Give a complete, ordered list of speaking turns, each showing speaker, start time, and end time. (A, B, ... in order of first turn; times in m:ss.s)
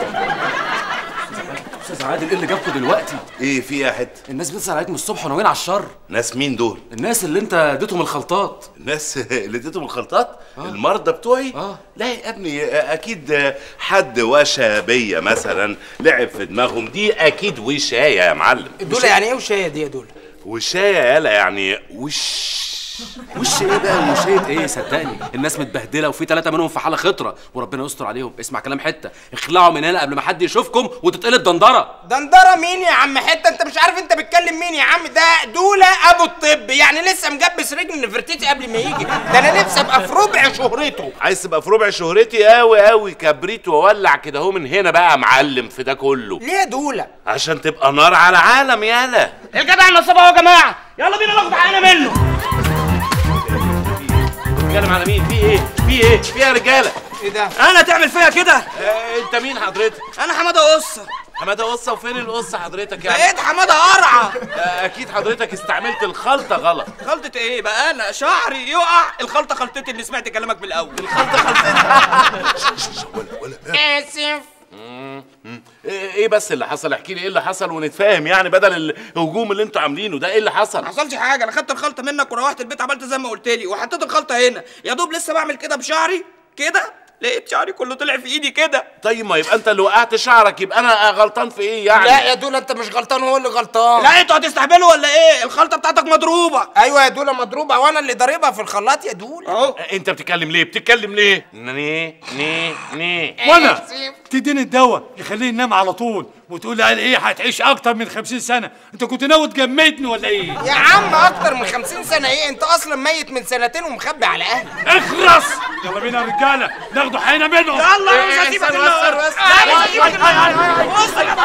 0:01.3-0:03.2 A
0:03.4-0:04.2 B
0:04.3-0:05.9 A
0:06.1-0:06.8 B
0:06.9-0:08.7 A
0:08.8-0:19.1 B
0:11.5-0:11.8 A
0:18.8-0:20.1 C
0:20.4-0:23.2 B
0:23.4-0:31.9 A
0:32.0-0:41.1 C
0:41.2-0:46.4 B
0:46.4-0:47.1 C
0:47.3-0:49.3 B
0:49.5-0:52.2 D
0:53.5-0:54.0 B
0:54.6-0:57.0 B
0:57.2-0:57.5 C
0:57.6-0:58.7 D
0:58.7-1:00.0 B
1:00.2-1:01.1 D
1:01.4-1:03.3 B
1:03.0-1:04.0 C
1:04.0-1:04.3 D
1:04.5-1:06.9 B
1:07.0-1:11.0 D
1:10.9-1:13.8 B
1:13.7-1:14.4 C
1:14.7-1:20.9 B
1:20.8-1:28.8 D
1:29.0-1:32.3 B
1:31.9-1:34.1 C
1:34.0-1:36.7 D
1:36.8-1:39.5 C
1:39.8-1:43.4 B
1:43.4-1:44.1 C
1:43.4-1:50.6 E
1:50.6-1:54.7 C
1:54.8-2:01.1 E
1:58.1-2:01.0 B
1:58.4-1:58.7 C
1:59.4-2:00.0 C